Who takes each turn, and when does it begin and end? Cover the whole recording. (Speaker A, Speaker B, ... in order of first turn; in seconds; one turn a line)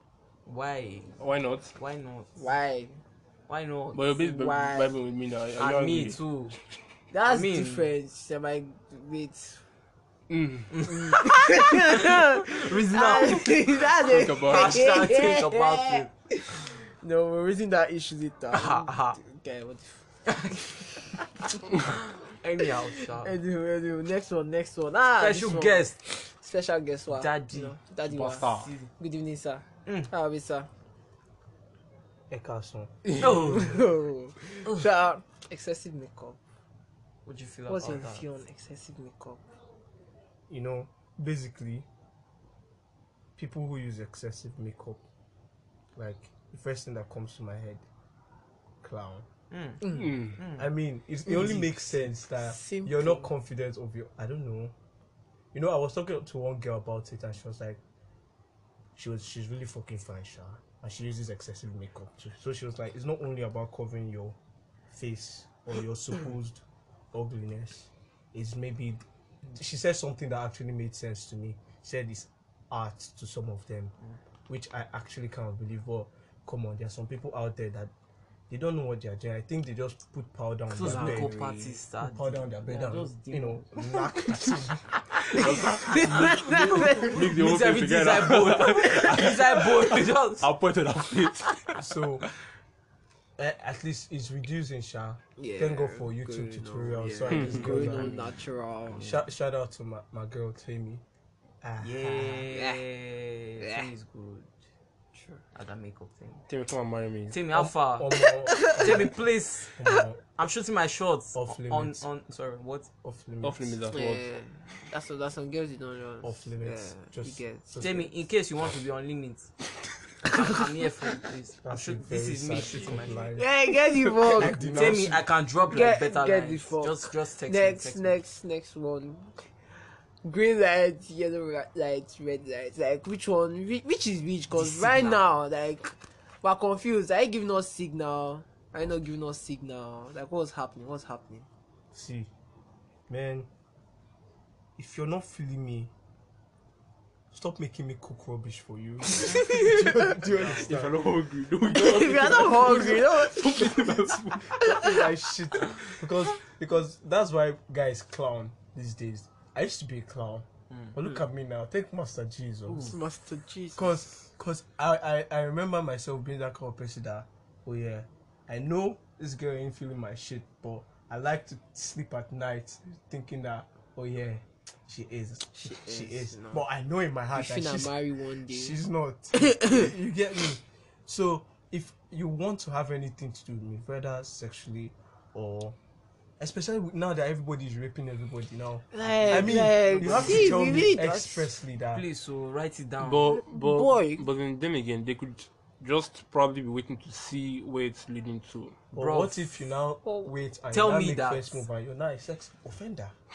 Speaker A: 0.5-1.2
Speaker B: 1.2-1.7
Speaker A: 1.7-2.4
Speaker C: 2.4-3.0
Speaker A: 3.5-4.1
Speaker B: 3.9-6.2
Speaker C: 4.2-4.9
Speaker A: 5.6-6.6
Speaker C: 7.1-9.6
Speaker A: 7.3-7.9
Speaker B: 10.3-10.7
Speaker A: 10.7-16.1
Speaker C: 10.9-20.0
Speaker B: 14.0-15.0
Speaker A: 18.5-19.2
Speaker A: 20.3-23.4
Speaker C: 23.2-30.7
Speaker A: 25.2-26.0
Speaker A: 27.1-27.8
Speaker B: 28.1-28.7
Speaker A: 28.4-28.9
Speaker D: 32.3-32.9
Speaker A: 33.2-33.8
Speaker C: 33.3-36.4
Speaker A: 37.3-38.3
Speaker C: 37.7-39.4
Speaker D: 40.5-41.9
Speaker D: 43.4-45.0
Speaker D: 46.0-47.8
Speaker D: 48.8-49.3
Speaker A: 49.5-50.7
Speaker B: 49.9-50.4
Speaker D: 50.6-54.8
Speaker A: 51.4-51.6
Speaker C: 52.3-53.3
Speaker D: 55.5-57.8
Speaker D: 59.0-64.4
Speaker D: 64.9-66.6
Speaker D: 67.1-73.9
Speaker D: 74.5-77.9
Speaker D: 78.5-81.4
Speaker A: 80.7-84.1
Speaker C: 80.8-81.8
Speaker D: 82.0-84.9
Speaker C: 85.1-87.3
Speaker B: 85.3-92.3
Speaker A: 85.8-90.5
Speaker D: 91.8-92.3
Speaker D: 93.4-98.3
Speaker C: 95.4-99.2
Speaker B: 97.3-98.2
Speaker D: 98.9-101.0
Speaker D: 101.6-102.4
Speaker A: 101.8-104.5
Speaker C: 102.4-102.8
Speaker C: 103.6-103.9
Speaker A: 105.5-106.4
Speaker B: 106.5-107.4
Speaker A: 107.3-109.8
Speaker D: 107.5-109.2
Speaker C: 108.2-109.1
Speaker D: 109.7-110.2
Speaker A: 110.4-112.9
Speaker D: 111.3-112.1
Speaker D: 113.0-113.8
Speaker B: 113.4-114.2
Speaker C: 113.9-117.8
Speaker D: 116.2-118.1
Speaker A: 117.8-119.5
Speaker A: 120.2-123.4
Speaker D: 121.6-123.5
Speaker C: 123.4-125.0
Speaker B: 124.2-124.7
Speaker D: 124.3-125.3
Speaker A: 124.4-128.2
Speaker C: 125.7-129.4
Speaker C: 130.2-141.5
Speaker A: 134.5-135.2
Speaker D: 141.9-142.3
Speaker D: 143.1-143.5
Speaker D: 144.8-145.9
Speaker D: 147.3-151.0
Speaker C: 149.2-149.9
Speaker A: 150.2-150.7
Speaker B: 150.4-154.8
Speaker C: 151.7-155.0
Speaker D: 154.6-163.0
Speaker A: 160.7-161.2
Speaker A: 162.7-163.0
Speaker C: 162.8-164.1
Speaker D: 163.8-178.0
Speaker C: 175.5-176.7
Speaker C: 177.3-178.8
Speaker D: 178.5-185.8
Speaker C: 179.3-179.9
Speaker D: 186.4-192.1
Speaker C: 188.9-191.5
Speaker B: 189.4-190.4
Speaker A: 189.9-190.5
Speaker A: 191.9-193.3
Speaker B: 193.0-198.8
Speaker C: 193.3-194.2
Speaker D: 198.9-203.1
Speaker A: 199.0-199.6
Speaker C: 200.0-200.3
Speaker A: 200.7-201.6